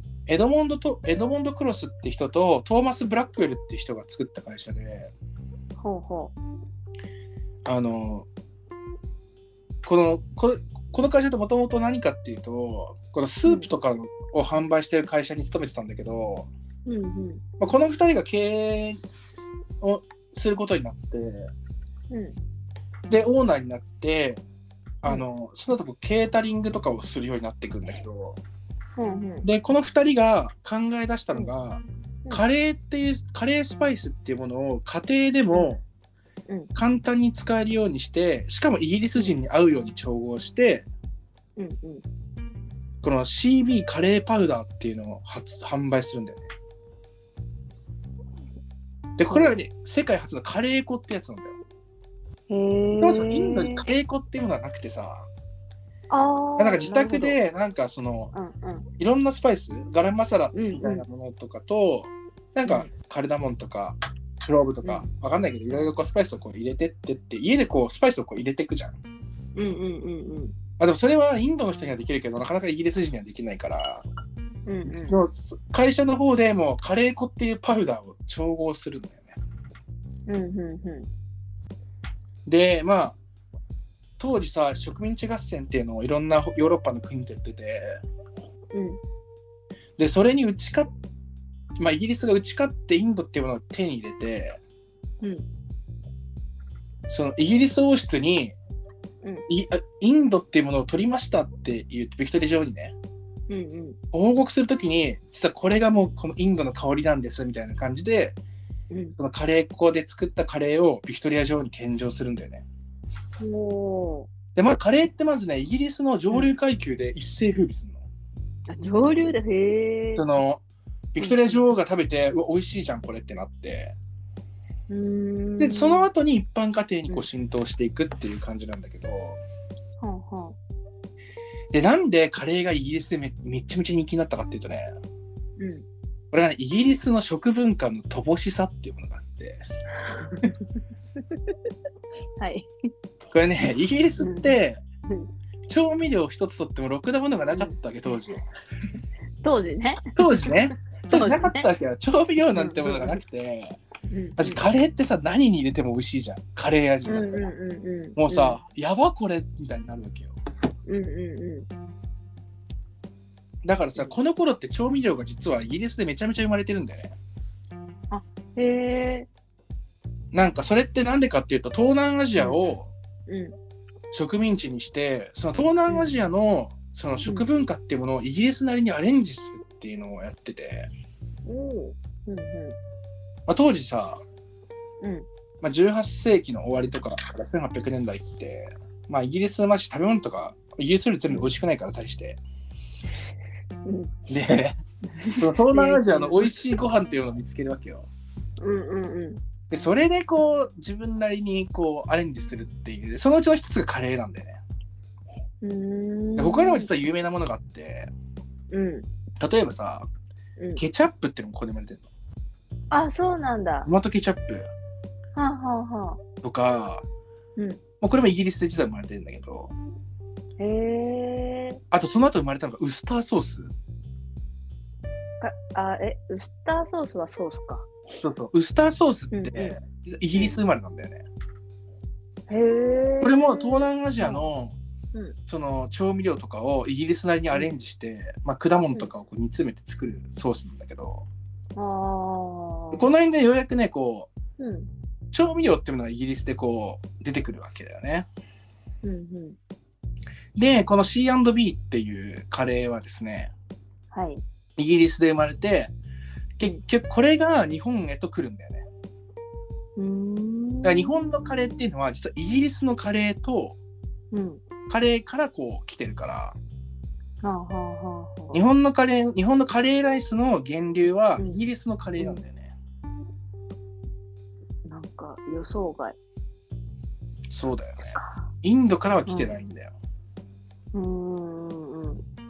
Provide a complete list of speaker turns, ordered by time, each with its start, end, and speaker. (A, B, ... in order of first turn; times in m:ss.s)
0:00.3-0:05.1 A
0:05.8-0:06.3 B
0:07.6-0:08.3 A
0:09.8-0:16.5 A
0:16.8-0:17.4 B
0:17.6-0:19.0 A
0:19.8-0:21.5 A
0:22.1-0:22.4 B
0:23.1-0:24.4 A
0:25.0-0:28.4 A
0:29.0-0:29.5 B
0:29.4-0:35.8 A
0:36.8-0:40.8 A
0:41.6-0:42.0 B
0:43.0-0:46.4 A
0:49.2-0:51.6 A
0:52.5-0:53.8 B
0:53.0-0:55.2 A
0:56.1-0:57.4 B
0:56.6-0:58.3 A
0:58.3-0:58.9 B
0:59.0-1:09.0 A
1:00.5-1:01.0 B
1:02.6-1:02.9 B
1:09.5-1:10.5 B
1:10.8-1:14.0 A
1:14.6-1:15.2 B
1:14.8-1:19.4 A
1:20.2-1:21.1 B
1:22.4-1:23.2 A
1:24.2-1:28.0 A
1:28.7-1:29.0 B
1:30.0-1:30.9 A
1:31.8-1:34.6 A
1:37.1-1:38.5 A
1:39.5-1:42.9 A
1:43.5-1:44.0 B
1:44.1-1:48.4 A
1:48.9-1:49.2 B
1:49.2-1:52.7 A
1:53.4-1:54.3 B
1:54.6-1:58.0 A
1:58.7-2:00.2 B
2:00.2-2:00.6 A
2:01.2-2:03.9 A
2:01.2-2:01.6 B
2:04.9-2:06.1 B
2:05.6-2:09.4 A
2:10.0-2:10.6 B
2:11.7-2:14.9 A
2:15.6-2:15.8 B
2:16.3-2:19.6 A
2:19.9-2:20.6 B
2:22.4-2:22.7 B
2:23.3-2:24.8 A
2:24.2-2:24.6 B
2:25.7-2:28.4 A
2:27.5-2:27.8 B
2:29.4-2:31.7 B
2:30.2-2:33.8 A
2:32.5-2:33.2 B
2:34.1-2:34.7 B
2:34.4-2:37.5 A
2:37.0-2:38.6 B
2:38.2-2:40.3 A
2:40.8-2:41.7 B
2:43.6-2:47.2 A
2:48.1-2:49.3 B
2:50.3-2:52.9 A
2:52.4-2:52.6 B
2:53.3-2:53.6 B
2:54.1-3:00.9 A
2:55.9-2:56.2 B
3:01.4-3:02.8 B
3:03.5-3:04.2 A
3:05.0-3:05.3 B
3:05.6-3:12.4 A
3:13.8-3:14.1 B
3:14.3-3:14.8 A
3:15.1-3:16.7 B
3:15.3-3:18.1 A
3:18.6-3:19.4 B
3:19.7-3:24.6 A
3:25.6-3:26.9 B
3:26.4-3:28.1 A
3:28.7-3:29.1 B
3:29.4-3:30.1 A
3:30.8-3:32.1 A
3:32.9-3:33.9 B
3:33.8-3:34.7 A
3:35.3-3:36.2 B
3:36.4-3:37.0 A
3:38.0-3:39.7 A
3:40.6-3:41.8 B
3:41.9-3:43.7 A
3:45.4-3:47.9 B
3:48.2-3:51.2 A
3:49.3-3:49.8 B
3:52.5-3:54.4 B
3:53.2-3:54.7 A
3:55.5-4:01.2 A
4:01.8-4:03.1 B
4:02.9-4:04.3 A
4:04.6-4:04.9 B
4:05.3-4:08.3 A
4:09.0-4:09.6 B
4:10.6-4:13.5 A
4:14.1-4:14.4 B
4:14.8-4:15.9 A
4:16.6-4:18.8 A
4:20.0-4:21.5 B
4:20.8-4:23.8 A
4:24.3-4:24.6 B
4:24.9-4:26.6 A
4:27.4-4:28.6 B
4:28.5-4:32.7 A
4:31.4-4:31.6 B
4:34.8-4:36.2 B
4:37.5-4:39.9 A
4:38.2-4:38.5 B
4:39.3-4:39.6 B
4:40.9-4:42.2 B